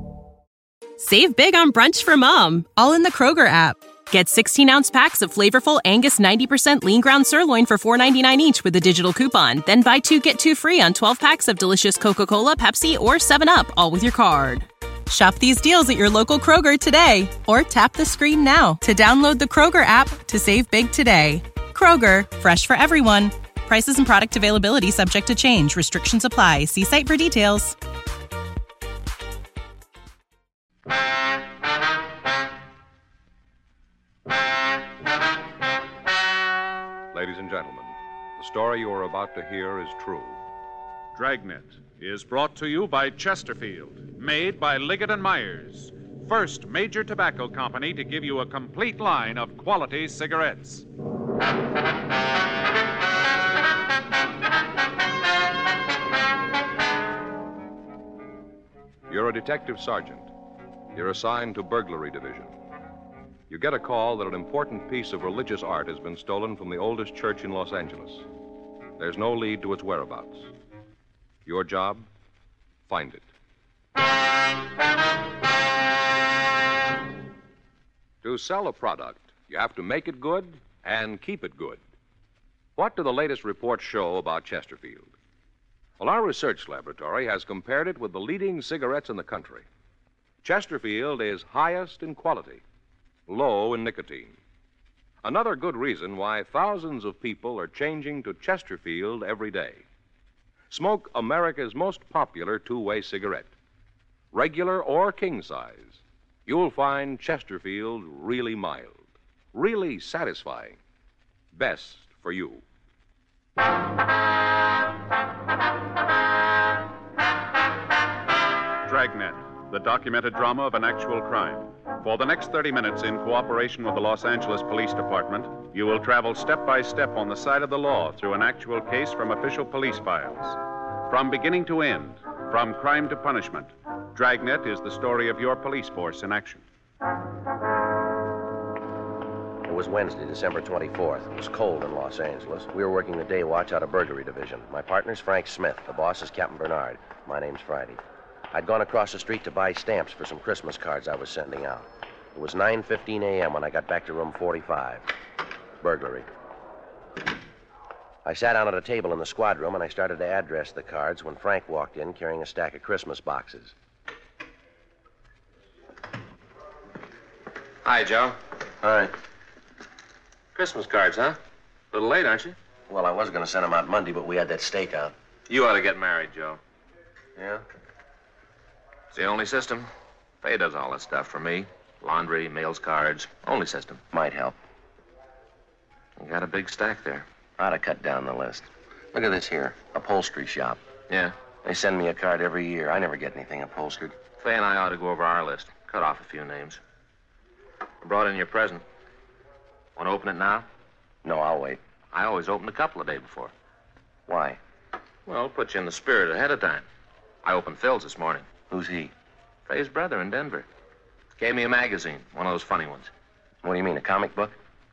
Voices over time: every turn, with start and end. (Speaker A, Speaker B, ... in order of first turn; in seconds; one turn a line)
Speaker A: 1.0-27.8
Speaker B: 37.1-40.4
Speaker C: 41.1-50.9
Speaker B: 59.1-60.3
Speaker B: 60.9-62.5
Speaker B: 63.5-68.2
Speaker B: 69.0-70.5
Speaker B: 71.5-72.1
Speaker B: 72.9-73.3
Speaker B: 78.2-81.8
Speaker B: 82.8-85.1
Speaker B: 86.0-89.7
Speaker B: 90.4-92.6
Speaker B: 93.3-94.4
Speaker B: 95.2-99.8
Speaker B: 100.7-103.5
Speaker B: 104.3-110.8
Speaker B: 111.5-112.6
Speaker C: 118.8-136.6
Speaker D: 139.6-148.0
Speaker D: 148.5-155.1
Speaker D: 155.8-156.2
Speaker D: 158.2-163.7
Speaker E: 167.8-168.3
Speaker D: 168.8-169.1
Speaker E: 170.5-171.4
Speaker E: 171.9-172.6
Speaker D: 172.9-175.1
Speaker E: 175.5-176.6
Speaker D: 177.3-177.6
Speaker E: 179.1-179.9
Speaker E: 180.4-184.0
Speaker D: 184.1-184.6
Speaker E: 186.2-187.2
Speaker D: 187.6-190.8
Speaker E: 191.1-191.3
Speaker D: 191.6-194.2
Speaker E: 194.4-196.8
Speaker E: 198.0-198.8
Speaker E: 199.9-200.7
Speaker D: 201.2-201.8
Speaker E: 202.1-203.5
Speaker D: 204.3-204.6
Speaker E: 205.2-206.8
Speaker E: 207.4-208.5
Speaker D: 208.7-209.1
Speaker E: 209.7-210.7
Speaker E: 211.4-213.1
Speaker D: 213.6-214.6